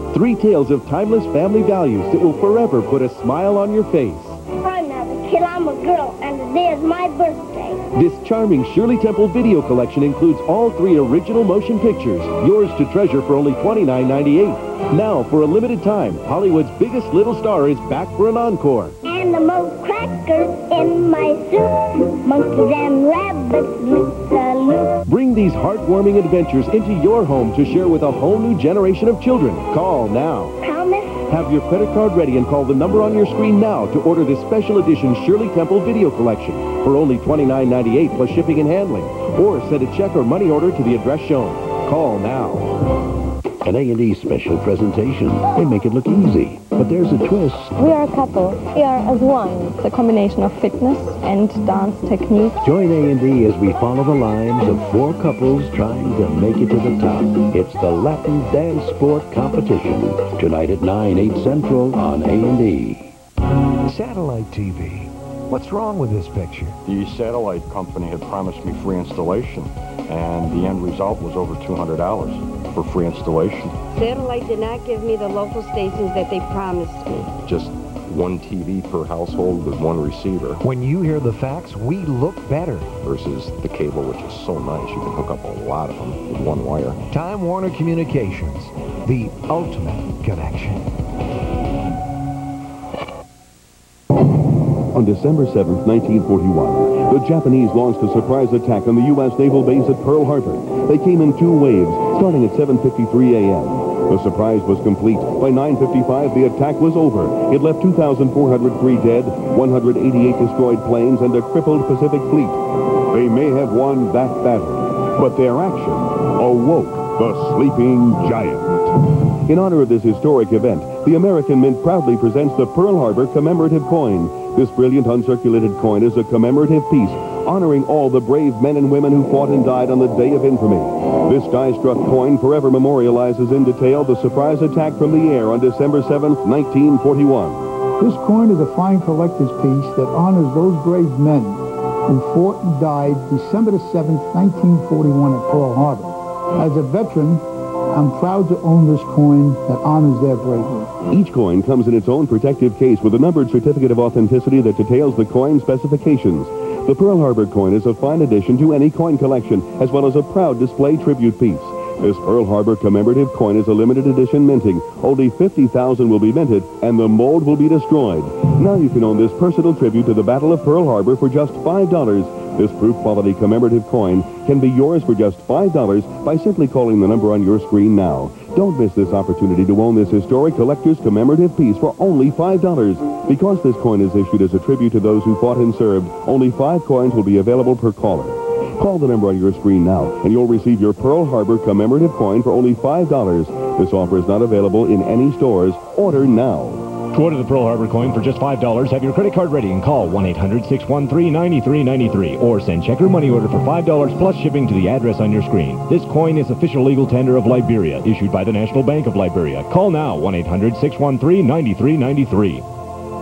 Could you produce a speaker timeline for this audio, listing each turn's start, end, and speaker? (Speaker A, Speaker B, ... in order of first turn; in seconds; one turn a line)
Speaker A: 0.1-4.4
Speaker B: 4.6-7.8
Speaker A: 8.0-18.9
Speaker B: 19.1-24.9
Speaker A: 25.1-30.6
Speaker B: 30.6-31.2
Speaker A: 31.3-42.7
Speaker C: 43.6-47.7
Speaker D: 47.8-52.5
Speaker C: 52.6-63.1
Speaker E: 65.6-66.6
Speaker F: 66.9-73.8
Speaker G: 73.9-77.3
Speaker F: 77.4-80.6
Speaker E: 80.7-82.8
Speaker F: 83.1-87.0
Speaker E: 87.2-90.6
Speaker H: 94.9-137.8
Speaker I: 138.0-141.5
Speaker I: 142.2-146.1
Speaker I: 146.7-147.4
Speaker I: 148.0-150.7
Speaker H: 151.1-197.0
Speaker J: 197.1-212.6